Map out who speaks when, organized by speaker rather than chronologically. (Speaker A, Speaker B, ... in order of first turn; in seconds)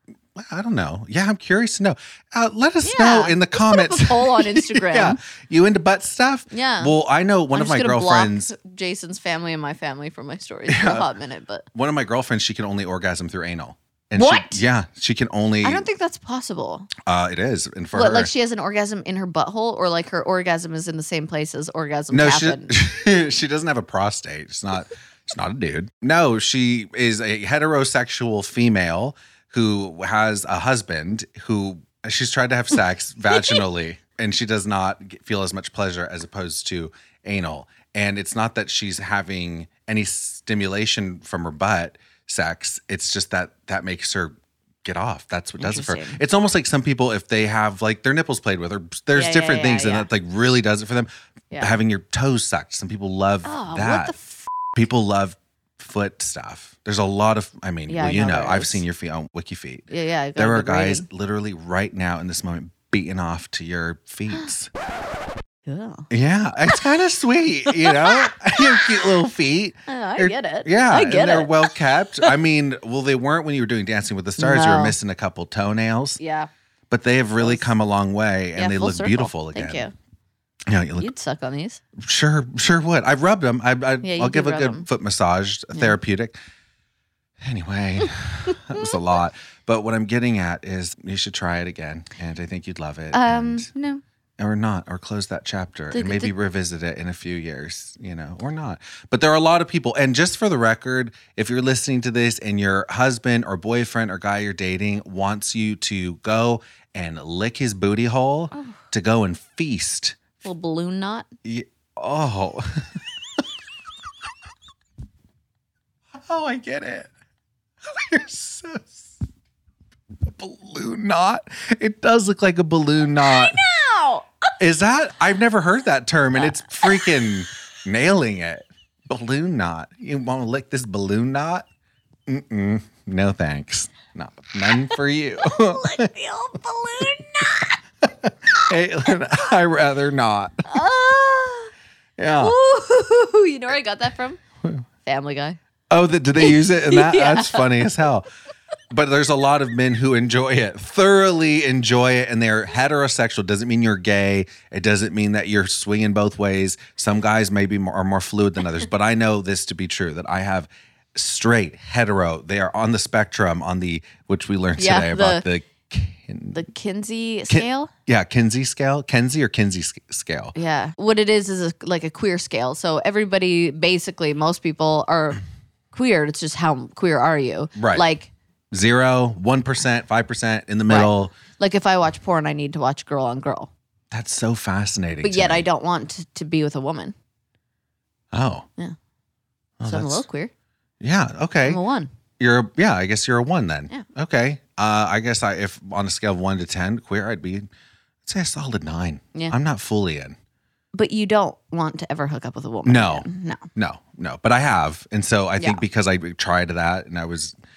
Speaker A: 0.3-8.5, 10.7-11.1, 11.7-15.9, 17.0-18.3, 22.1-54.1, 54.7-64.7, 66.1-76.2, 76.9-79.9, 80.7-81.1, 82.0-86.4, 87.4-93.7, 94.4-110.3, 111.4-113.0, 116.2-117.1, 117.9-119.2, 120.2-123.6, 124.6-131.7, 132.3-136.1, 138.0-140.7, 142.2-142.6, 145.9-148.3, 148.9-166.7, 167.5-170.5, 177.8-178.1, 178.7-181.3, 184.1-185.7, 188.3-188.7, 189.8-190.2, 191.0-191.8, 192.4-197.7, 198.2-200.4, 202.8-207.6
Speaker B: 2.8-5.2, 6.5-7.0, 7.5-11.7, 14.2-14.6, 15.6-16.9, 17.9-22.8, 45.6-46.2, 49.1-50.1, 53.4-54.5, 57.9-58.8, 59.9-61.1, 65.7-66.1, 67.7-68.8, 69.9-71.7, 74.4-75.0, 76.2-76.5, 77.4-77.7, 78.6-79.9, 81.0-81.8, 84.0-84.9, 85.7-86.0, 88.5-88.9, 93.1-94.0, 95.9-96.3, 108.5-108.8, 110.4-111.3, 123.2-124.3, 126.4-127.0, 135.4-137.8, 140.7-141.7, 142.4-144.4, 145.1-145.6, 146.4-147.8, 164.8-165.5, 166.5-167.9, 170.6-175.4, 175.9-178.3, 180.9-183.7, 185.2-187.1, 189.8-190.5, 191.7-192.1, 200.9-203.7, 205.6-205.8